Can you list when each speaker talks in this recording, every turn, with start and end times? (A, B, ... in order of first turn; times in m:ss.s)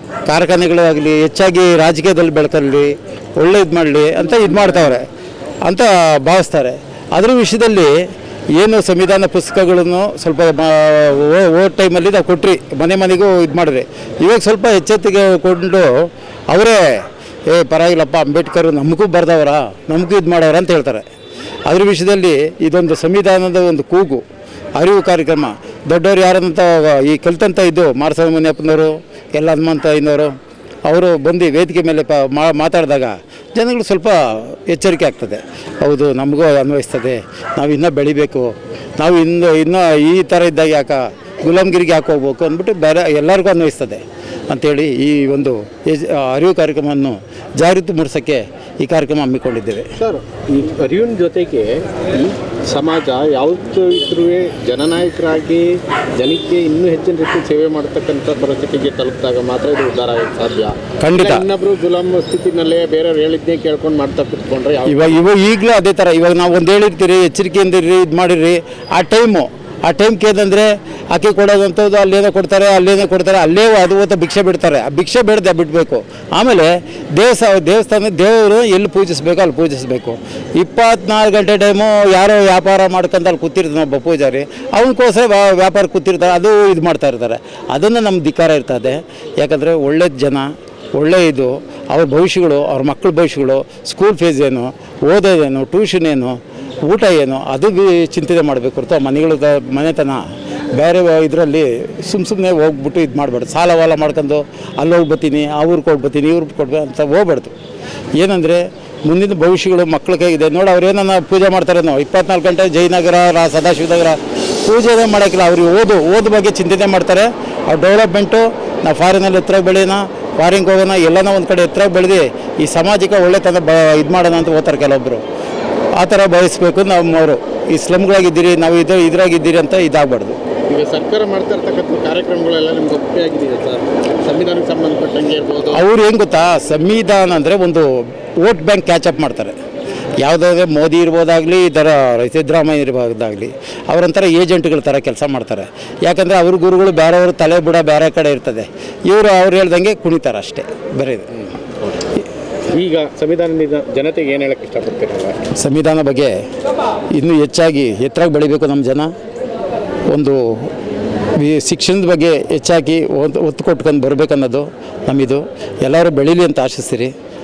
0:00.3-0:05.1 A
0:05.7-0:07.9 A
0:08.6-0:15.9 A
0:16.5-0:16.8 A
0:17.5-0:21.0 A
0:21.7-0:24.2 A
0:24.8-0:30.3 A
0:30.9-0:49.9 A
0:50.0-1:05.2 B
1:01.0-1:01.5 A
1:04.9-1:40.2 A
1:40.8-1:47.5 A
1:48.2-2:05.2 A
2:06.0-2:10.4 A
2:10.7-2:15.8 B
2:15.7-2:17.9 A
2:18.4-2:19.6 A
2:20.2-2:31.3 A
2:32.7-2:35.4 B
2:35.6-2:36.4 A
2:37.2-2:39.1 A
2:40.1-2:40.7 A
2:41.4-2:47.1 A